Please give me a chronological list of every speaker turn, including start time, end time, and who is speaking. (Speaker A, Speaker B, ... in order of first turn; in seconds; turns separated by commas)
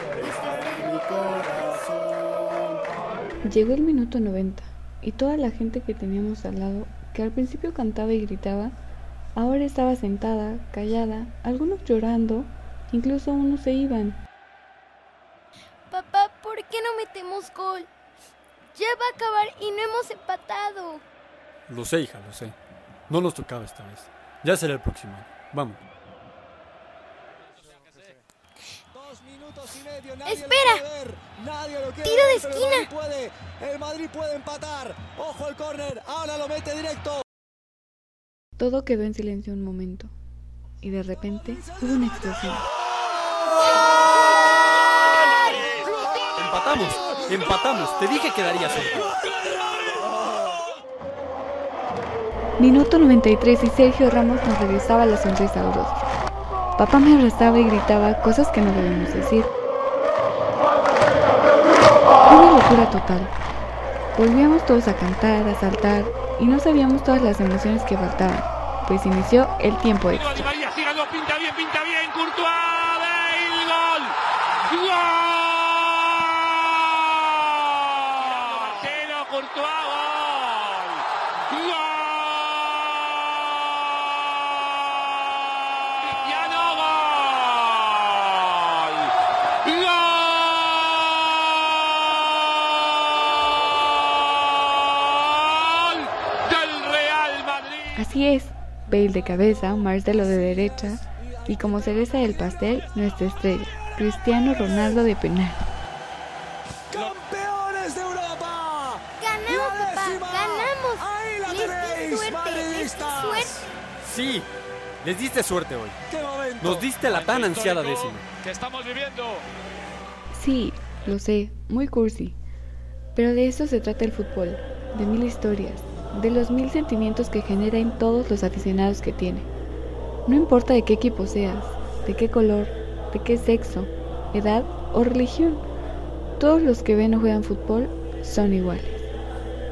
Speaker A: 0.2-1.9, Speaker B: 3.4-8.7, Speaker B: 9.3-14.2, Speaker A: 15.9-17.9, Speaker A: 18.8-21.0, Speaker C: 21.7-22.5, Speaker C: 23.1-25.8, Speaker D: 28.9-37.2, Speaker A: 30.3-30.8, Speaker A: 32.1-32.9, Speaker B: 38.6-40.1, Speaker B: 40.8-42.6, Speaker D: 41.3-42.5, Speaker D: 44.1-46.7, Speaker C: 46.4-49.1, Speaker D: 49.0-50.2, Speaker B: 52.6-56.0, Speaker B: 56.8-59.5, Speaker B: 62.2-63.3, Speaker B: 64.2-70.5, Speaker E: 70.9-73.7, Speaker E: 78.5-79.3, Speaker B: 97.9-105.6, Speaker D: 101.3-102.6, Speaker D: 106.9-113.7, Speaker A: 109.2-113.6, Speaker C: 114.0-114.5, Speaker C: 115.0-116.0, Speaker D: 116.1-116.8, Speaker C: 116.6-118.2, Speaker B: 120.3-122.3, Speaker B: 123.1-129.5, Speaker B: 130.2-135.6, Speaker B: 136.4-139.1